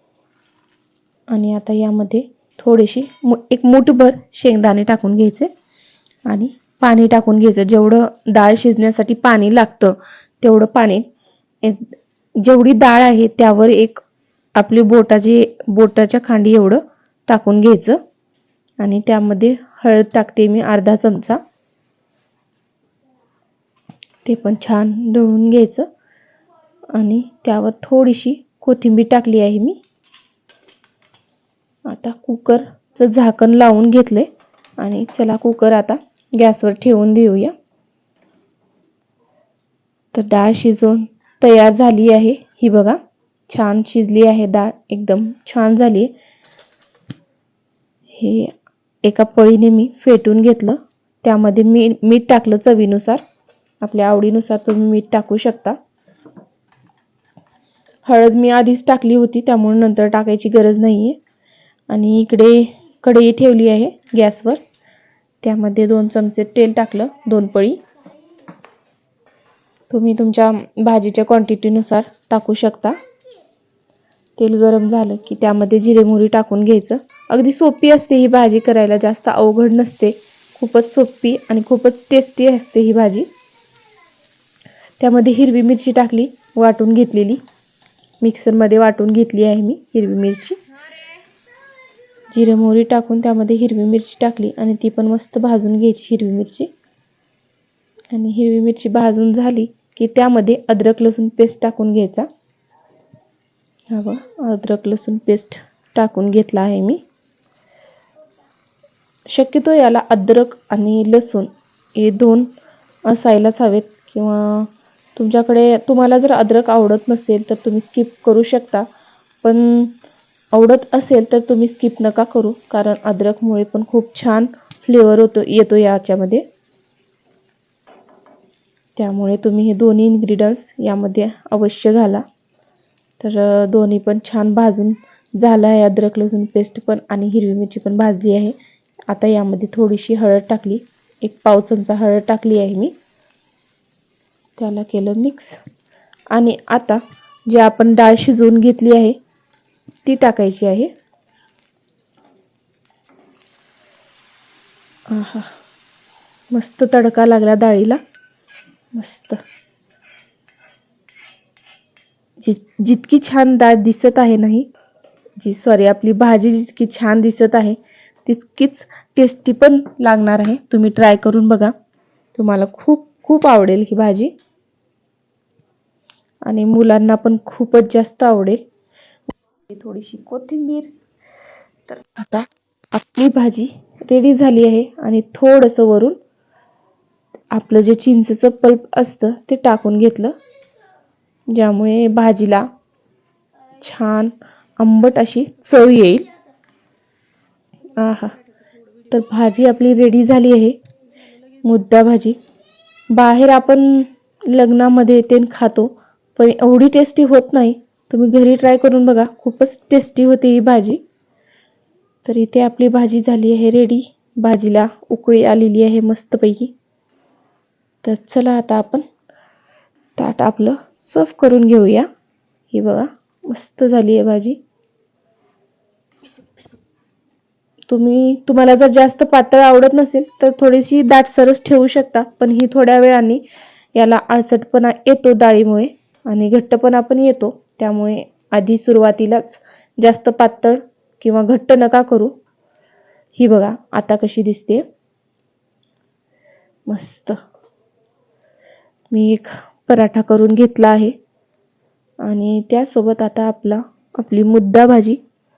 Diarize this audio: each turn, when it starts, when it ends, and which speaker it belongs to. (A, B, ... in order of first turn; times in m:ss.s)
0:01.3-0:05.5 A
0:06.3-0:11.0 A
0:11.6-0:14.0 A
0:14.5-0:18.0 A
0:18.8-0:21.4 A
0:24.2-0:25.9 A
0:26.9-0:29.8 A
0:31.8-0:34.3 A
0:34.8-0:37.5 A
0:40.1-0:43.0 A
0:43.5-0:46.1 A
0:48.1-0:48.5 A
0:49.0-0:53.2 A
0:53.8-0:55.8 A
0:58.0-1:01.2 A
1:01.9-1:04.6 A
1:05.4-1:07.8 A
1:09.9-1:13.0 A
1:14.4-1:23.3 A
1:25.0-1:27.4 A
1:28.2-1:30.6 A
1:32.3-1:36.7 A
1:38.1-1:42.3 A
1:43.9-1:47.0 A
1:49.3-1:52.5 A
1:53.1-1:58.8 A
1:59.4-1:59.9 A
2:00.5-2:06.4 A
2:09.0-2:12.2 A
2:13.2-2:18.6 A
2:19.1-2:22.9 A
2:24.6-2:25.6 A
2:26.3-2:29.2 A
2:30.0-2:30.9 A
2:35.1-2:35.5 A
2:36.5-2:38.0 A
2:38.9-2:39.4 A
2:42.4-2:44.7 A
2:45.4-2:51.7 A
2:52.3-2:54.3 A
2:56.4-2:58.6 A
2:59.7-3:00.9 A
3:01.9-3:06.2 A
3:07.5-3:10.3 A
3:11.5-3:12.7 A
3:13.8-3:16.3 A
3:17.9-3:18.4 A
3:19.1-3:20.8 A
3:21.6-3:22.4 A
3:23.1-3:31.0 A
3:32.2-3:36.7 A
3:38.0-3:39.0 A
3:40.2-3:42.1 A
3:42.7-3:44.6 A
3:47.9-3:53.4 A
3:53.9-4:02.3 A
4:03.4-4:04.8 A
4:06.9-4:07.4 A
4:09.1-4:11.1 A
4:12.2-4:15.2 A